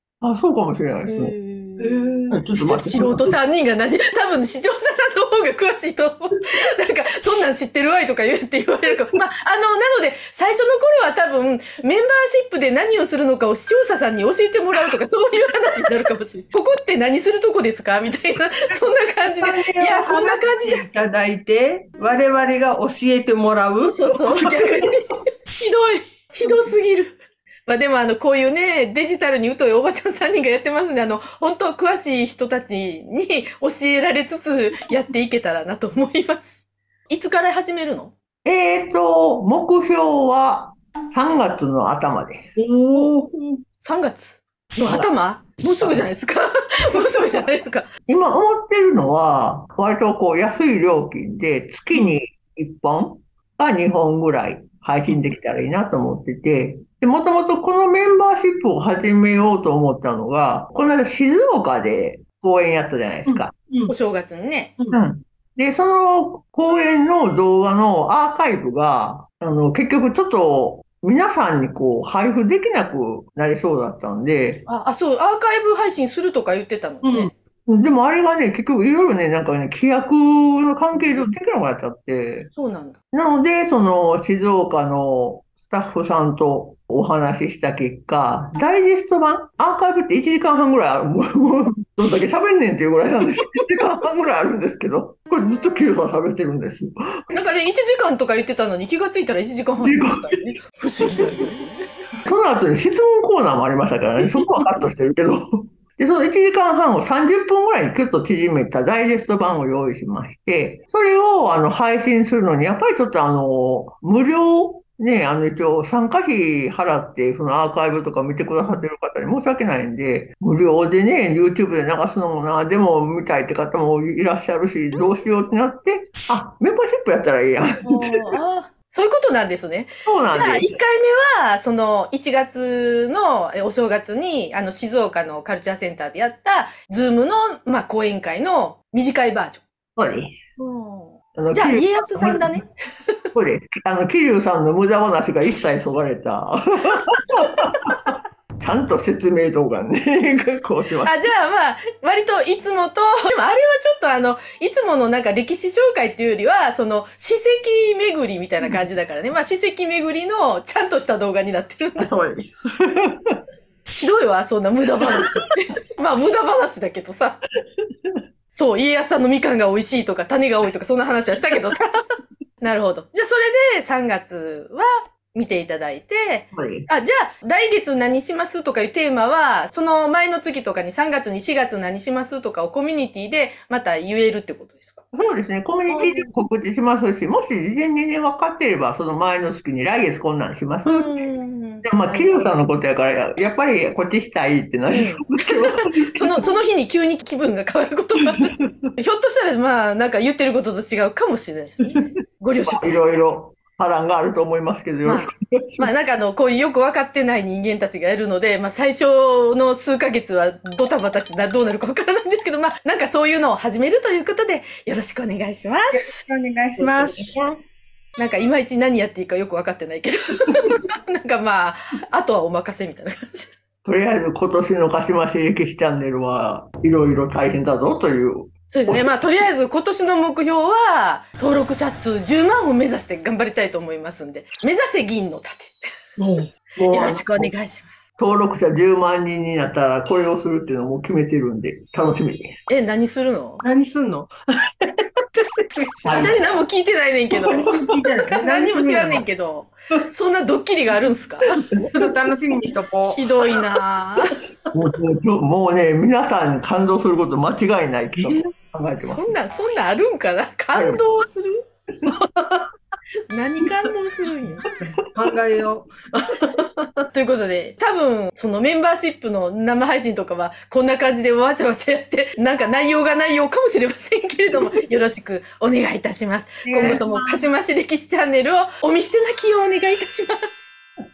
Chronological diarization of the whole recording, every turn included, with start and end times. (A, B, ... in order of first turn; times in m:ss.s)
0:00.2-0:03.4 A
0:01.1-0:20.8 B
0:19.4-0:24.1 C
0:23.8-0:38.1 B
0:38.4-0:42.6 A
0:42.6-0:43.1 C
0:43.1-0:43.5 A
0:43.8-0:47.9 B
0:44.8-0:45.1 A
0:45.8-0:46.1 A
0:48.1-1:03.5 A
1:03.3-1:03.9 C
1:03.9-1:04.8 B
1:04.9-1:14.6 A
1:14.7-1:17.3 B
1:17.0-1:17.3 C
1:17.7-1:22.5 A
1:22.5-1:23.0 B
1:23.1-1:36.9 A
1:37.3-1:41.8 B
1:39.8-1:40.4 A
1:41.0-1:41.5 A
1:42.2-2:08.0 A
2:07.8-2:19.6 B
2:10.1-2:10.8 A
2:20.0-2:20.4 A
2:20.6-2:23.2 B
2:21.3-2:22.6 A
2:23.4-2:31.1 A
2:31.0-2:42.1 B
2:42.0-2:43.4 A
2:44.0-2:47.4 B
2:48.5-2:51.9 B
2:52.6-3:05.0 B
2:56.5-2:56.9 A
3:05.1-3:11.3 A
3:05.9-3:06.3 B
3:10.9-3:12.6 B
3:11.8-3:16.5 A
3:14.9-3:23.2 B
3:22.7-3:25.9 A
3:25.0-3:36.2 B
3:35.9-3:37.2 C
3:36.8-3:37.3 B
3:37.0-3:37.5 A
3:38.2-3:43.6 B
3:43.8-3:49.2 A
3:48.7-3:55.7 B
3:56.2-3:56.5 C
3:56.8-3:57.5 A
3:56.8-3:57.9 B
3:58.2-4:02.5 A
4:02.7-4:03.6 B
4:03.6-4:04.3 C
4:06.0-4:06.4 A
4:06.1-4:07.8 B
4:07.6-4:09.3 C
4:08.3-4:11.5 B
4:11.6-4:12.0 A
4:11.9-4:13.2 C
4:13.1-4:14.3 B
4:14.7-4:19.4 A
4:19.0-4:21.6 B
4:20.7-4:21.0 A
4:23.3-4:25.0 B
4:25.1-4:26.6 C
4:27.1-4:40.7 B
4:36.6-4:37.5 C